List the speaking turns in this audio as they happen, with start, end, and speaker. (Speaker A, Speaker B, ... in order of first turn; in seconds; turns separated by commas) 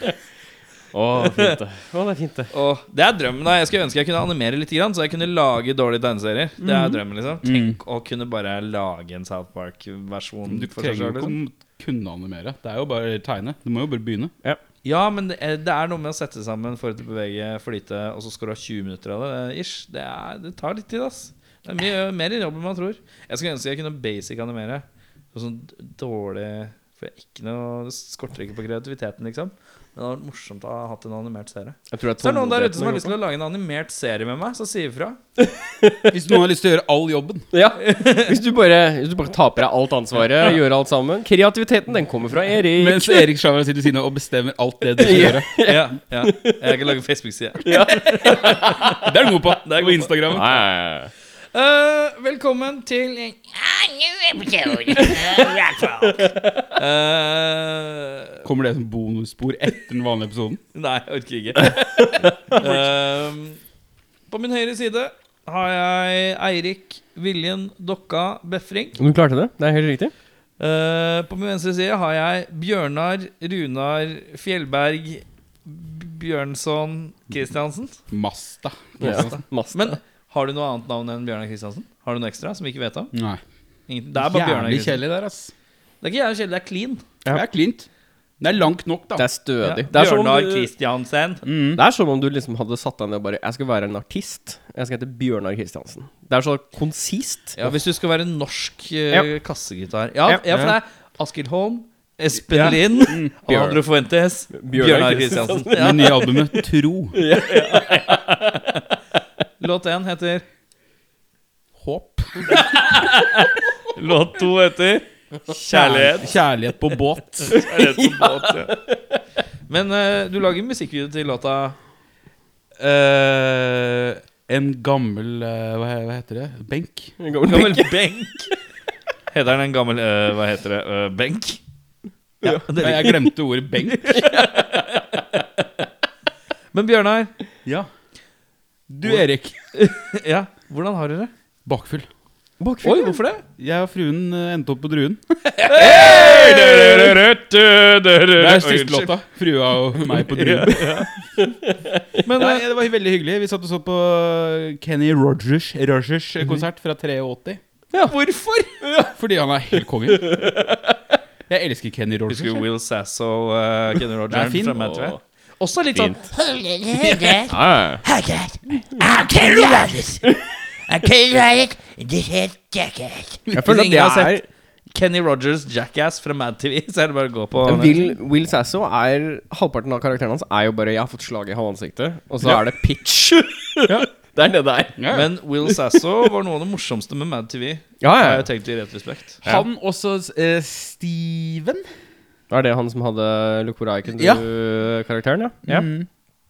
Speaker A: 0.9-2.5, Speaker B: 1.2-1.6, Speaker B: 2.5-11.4, Speaker C: 6.6-7.8, Speaker C: 10.5-14.3, Speaker B: 14.8-35.2, Speaker A: 31.9-33.1, Speaker A: 35.4-36.1, Speaker C: 36.1-37.5, Speaker A: 37.5-43.3, Speaker B: 37.8-38.3, Speaker C: 42.7-45.5, Speaker A: 45.0-46.8, Speaker B: 45.6-48.8, Speaker A: 47.6-49.1, Speaker C: 48.9-50.6, Speaker B: 49.6-50.4, Speaker A: 50.3-51.1, Speaker B: 51.5-53.4, Speaker D: 53.6-56.1, Speaker B: 56.8-58.4, Speaker C: 58.4-60.6, Speaker B: 60.7-63.6, Speaker B: 64.3-69.0, Speaker A: 69.0-70.1, Speaker B: 70.6-78.0, Speaker C: 78.1-79.4, Speaker A: 79.0-79.9, Speaker B: 79.7-83.1, Speaker C: 83.1-83.4, Speaker B: 83.9-85.0, Speaker C: 84.1-85.5, Speaker B: 86.0-87.0, Speaker C: 87.3-87.9, Speaker C: 88.4-89.2, Speaker A: 89.2-90.7, Speaker B: 89.6-91.4, Speaker C: 91.4-91.8, Speaker A: 91.7-97.7, Speaker B: 97.5-106.3, Speaker C: 100.5-100.8, Speaker C: 102.5-103.8, Speaker A: 104.5-106.5, Speaker C: 105.7-107.2, Speaker A: 107.1-108.4, Speaker B: 107.2-108.6, Speaker B: 109.6-110.4, Speaker C: 111.8-112.9, Speaker B: 112.5-116.3, Speaker C: 115.7-117.7, Speaker A: 117.5-118.8, Speaker B: 117.5-118.8, Speaker B: 119.7-121.8, Speaker C: 122.8-127.2, Speaker A: 127.2-128.5, Speaker B: 127.5-128.5, Speaker B: 129.3-131.6, Speaker B: 132.4-133.2, Speaker A: 132.4-133.3, Speaker C: 132.8-134.3, Speaker B: 133.9-135.4, Speaker B: 136.7-137.3, Speaker C: 138.9-139.6, Speaker B: 139.7-141.3, Speaker C: 141.7-142.1, Speaker A: 142.6-143.2, Speaker B: 142.8-143.4, Speaker C: 143.6-147.2, Speaker B: 145.6-149.2, Speaker C: 148.4-151.1, Speaker B: 150.1-151.1, Speaker A: 151.4-152.2, Speaker B: 152.2-152.6, Speaker C: 152.3-157.6, Speaker B: 158.0-158.8, Speaker A: 158.8-159.1, Speaker C: 159.1-160.6, Speaker A: 160.1-160.9, Speaker C: 161.5-162.6, Speaker B: 162.3-166.3, Speaker C: 164.3-164.9, Speaker A: 164.8-165.2, Speaker D: 166.3-170.3, Speaker B: 167.0-167.4, Speaker A: 167.5-168.0, Speaker D: 170.9-173.4, Speaker A: 173.6-174.4, Speaker B: 173.6-174.4, Speaker B: 174.9-178.1, Speaker A: 177.6-185.7, Speaker C: 185.0-185.3, Speaker B: 185.1-189.4, Speaker A: 188.0-188.5, Speaker C: 189.4-191.8, Speaker A: 192.5-195.9, Speaker C: 194.2-194.4, Speaker C: 195.7-196.1